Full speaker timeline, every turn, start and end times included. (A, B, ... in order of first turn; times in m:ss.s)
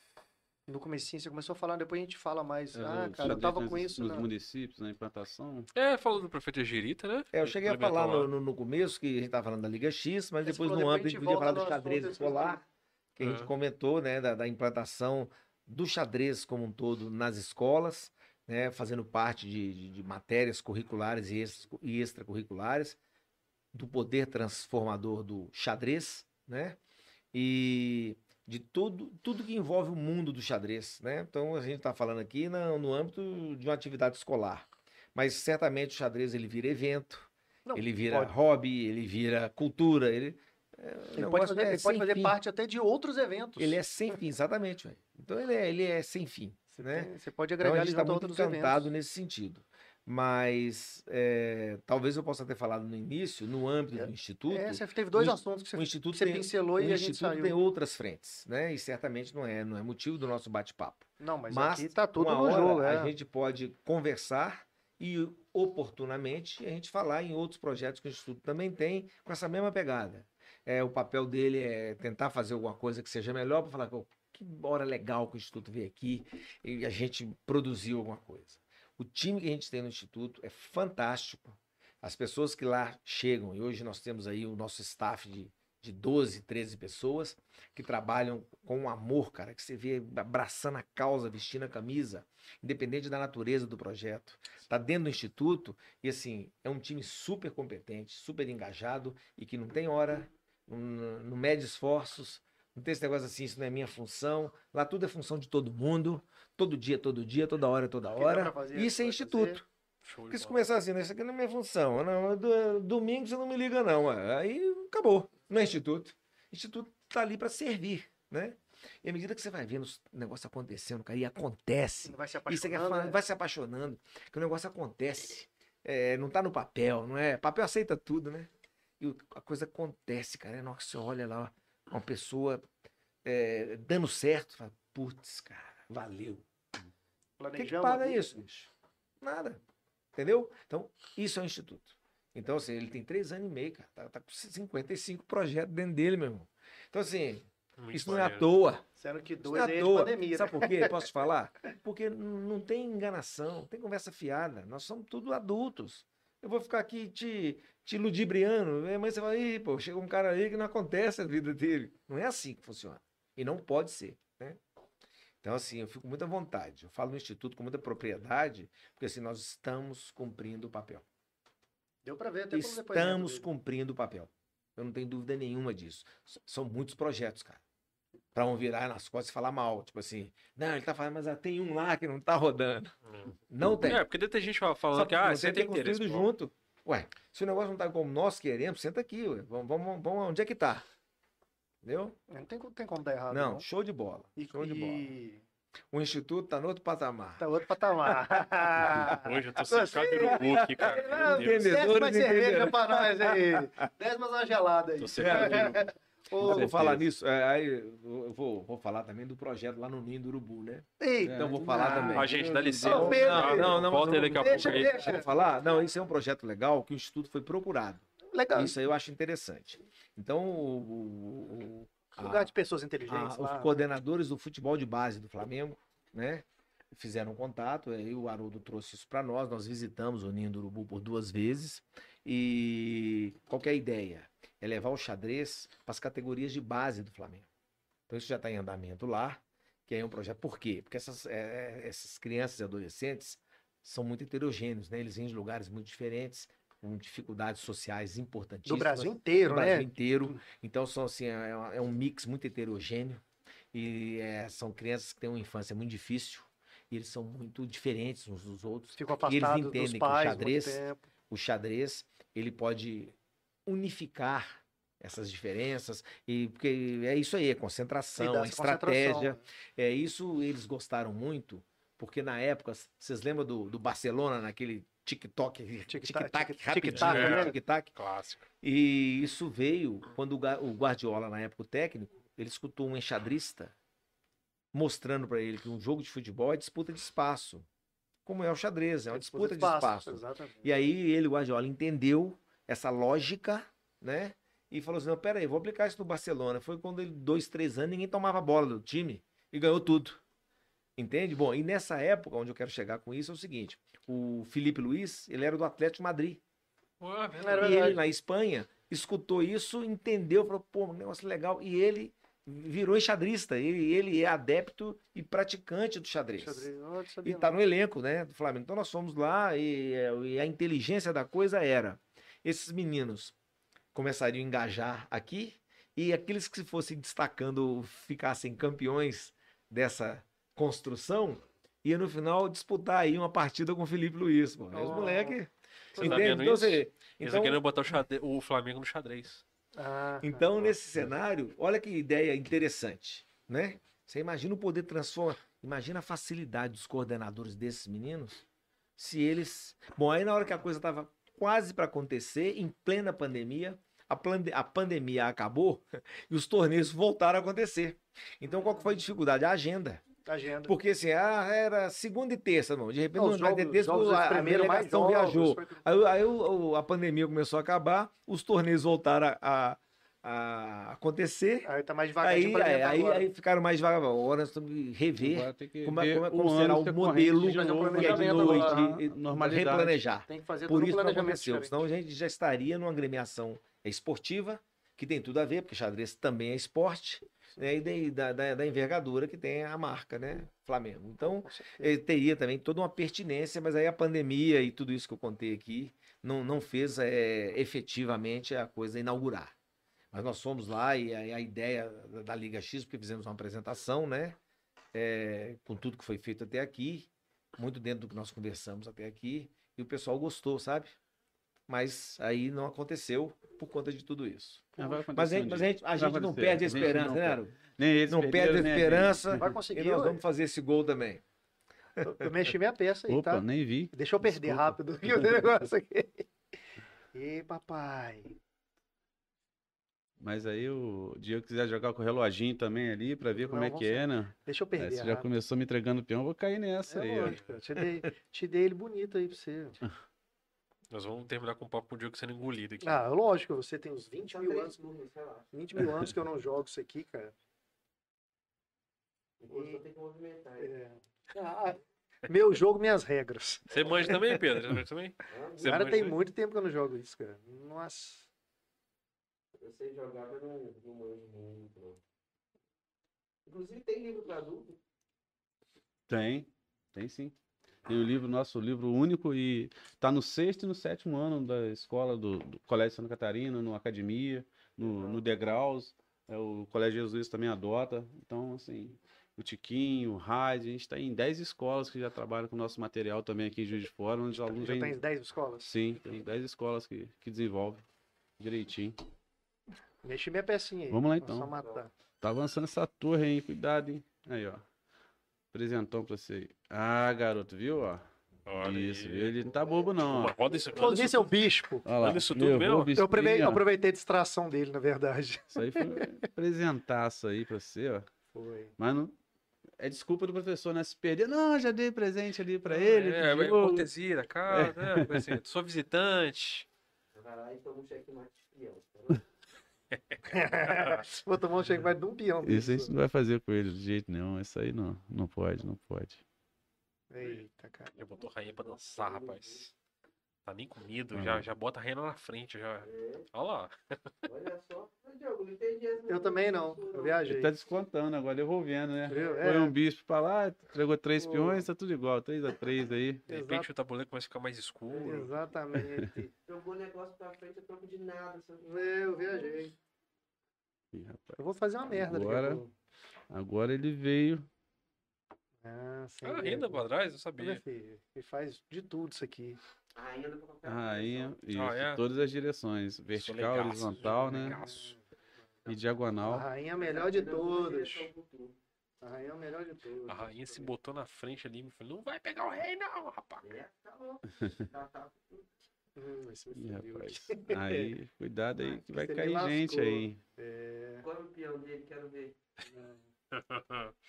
0:00.7-0:04.3 A
0:02.8-0:05.7 B
0:05.8-0:08.3 C
0:07.3-0:12.6 D
0:10.4-0:12.6 A
0:13.2-0:23.0 D
0:13.2-0:13.5 C
0:23.7-0:26.8 D
0:27.3-0:42.4 D
0:37.7-0:38.3 A
0:41.2-0:43.8 A
0:43.6-1:49.6 D
0:46.8-0:48.9 A
0:54.0-0:57.6 A
1:01.2-1:03.1 A
1:48.2-1:49.6 A
1:50.1-1:50.5 C
1:50.3-2:12.7 D
2:02.0-2:03.2 A
2:13.2-2:16.5 D
2:17.4-2:18.3 A
2:17.6-2:18.7 D
2:19.2-2:19.6 D
2:20.2-2:28.8 D
2:27.8-2:28.5 C
2:29.0-2:31.1 A
2:29.4-2:44.6 D
2:45.4-2:51.0 D
2:52.0-2:53.5 A
2:52.5-2:57.6 D
2:58.4-3:03.0 D
3:03.1-3:06.3 C
3:03.5-3:04.0 D
3:04.9-3:10.9 D
3:11.8-3:12.2 D
3:12.3-3:13.6 A
3:13.3-3:15.1 D
3:14.4-3:15.4 A
3:15.9-3:19.2 D
3:17.4-3:26.7 A
3:19.0-3:21.6 C
3:19.8-3:23.9 D
3:25.0-3:25.8 B
3:25.1-3:25.8 D
3:26.4-3:42.5 D
3:26.4-3:27.0 B
3:31.0-3:32.3 A
3:31.2-3:33.4 B
3:32.1-3:35.1 C
3:32.8-3:35.3 A
3:38.3-3:38.8 A
3:42.2-3:43.8 A
3:43.1-3:57.5 D
3:58.1-4:23.2 D
4:08.7-4:10.4 A
4:19.0-4:21.1 A
4:23.7-4:37.9 D
4:28.2-4:29.4 A
4:35.9-4:37.6 A
4:36.9-4:38.4 C
4:38.6-4:43.7 D
4:44.7-4:47.7 D
4:48.2-5:00.2 D
4:49.1-4:50.7 A
5:01.0-5:06.4 D
5:07.0-5:08.0 C
5:07.4-5:08.0 A
5:07.6-5:16.7 D
5:16.4-5:17.6 A
5:17.2-5:23.4 D
5:23.9-5:37.6 D
5:34.7-5:35.4 A
5:36.0-5:36.4 A
5:36.0-5:39.4 C
5:39.8-5:40.7 A
5:40.2-5:48.4 D
5:49.0-6:00.0 D
6:00.3-6:00.7 A
6:00.6-6:39.5 D
6:03.2-6:05.8 A
6:11.7-6:13.3 A
6:15.2-6:20.0 B
6:17.4-6:18.9 A
6:20.3-6:21.8 A
6:31.2-6:32.0 A
6:40.1-6:44.4 D
6:44.9-6:51.0 D
6:51.7-7:01.2 D
6:54.8-6:59.5 B
6:59.3-7:00.2 A
7:02.0-7:02.3 D
7:02.0-7:06.3 A
7:03.1-7:05.5 B
7:07.1-7:08.4 A
7:10.2-7:17.4 B
7:13.4-7:15.3 A
7:16.9-7:19.8 A
7:20.9-7:23.0 C
7:22.8-7:24.9 A
7:24.2-7:25.8 E
7:25.5-7:27.3 A
7:29.4-7:30.8 E
7:29.5-7:29.8 A
7:30.6-7:33.6 A
7:33.7-7:36.2 C
7:35.3-7:35.9 E
7:35.6-7:38.3 A
7:39.6-7:42.0 E
7:43.5-7:44.8 E
7:46.1-7:47.3 B
7:47.9-8:05.0 B
8:04.4-8:05.7 A
8:05.6-8:07.8 B
8:08.4-8:09.0 B
8:10.0-8:11.9 A
8:10.9-8:11.5 B
8:12.2-8:14.6 B
8:15.5-8:18.1 B
8:18.5-8:19.5 C
8:18.6-8:20.3 B
8:20.0-8:23.0 C
8:20.8-8:21.9 A
8:21.8-8:23.6 B
8:23.0-8:26.1 A
8:25.6-8:28.1 B
8:28.3-8:28.7 A
8:28.8-8:29.2 B
8:29.8-8:33.9 B
8:32.7-8:36.7 C
8:34.5-8:35.3 B
8:37.2-8:39.2 E
8:40.3-8:42.9 A
8:42.4-8:46.2 B
8:47.1-8:48.0 A
8:48.0-8:49.7 C
8:48.2-8:49.7 E
8:50.5-8:53.8 C
8:51.1-8:51.4 B
8:52.8-8:53.3 E
8:54.3-8:57.3 E
8:56.1-8:57.6 A
8:57.3-9:03.3 B
8:59.1-8:59.7 A
8:59.1-8:59.4 E
9:01.2-9:01.7 A
9:03.3-9:03.7 A
9:03.3-9:05.3 C
9:04.9-9:05.3 E
9:05.0-9:06.3 A
9:06.5-9:09.7 E
9:08.6-9:09.7 A
9:10.9-9:11.4 B
9:11.4-9:12.7 A
9:11.9-9:12.6 B
9:13.3-9:14.5 B
9:15.6-9:16.8 A
9:16.2-9:17.6 C
9:17.4-9:19.6 A
9:20.0-9:21.4 E
9:20.6-9:24.6 B
9:21.5-9:22.0 C
9:23.1-9:24.9 C
9:24.3-9:25.0 A
9:25.7-9:26.5 B
9:26.2-9:28.1 A
9:26.8-9:28.6 E
9:29.0-9:30.7 A
9:30.1-9:33.4 C
9:33.4-9:35.4 E
9:36.0-9:37.9 A
9:36.6-9:40.2 B
9:38.7-9:41.1 A
9:41.0-9:42.4 E
9:43.3-9:43.9 C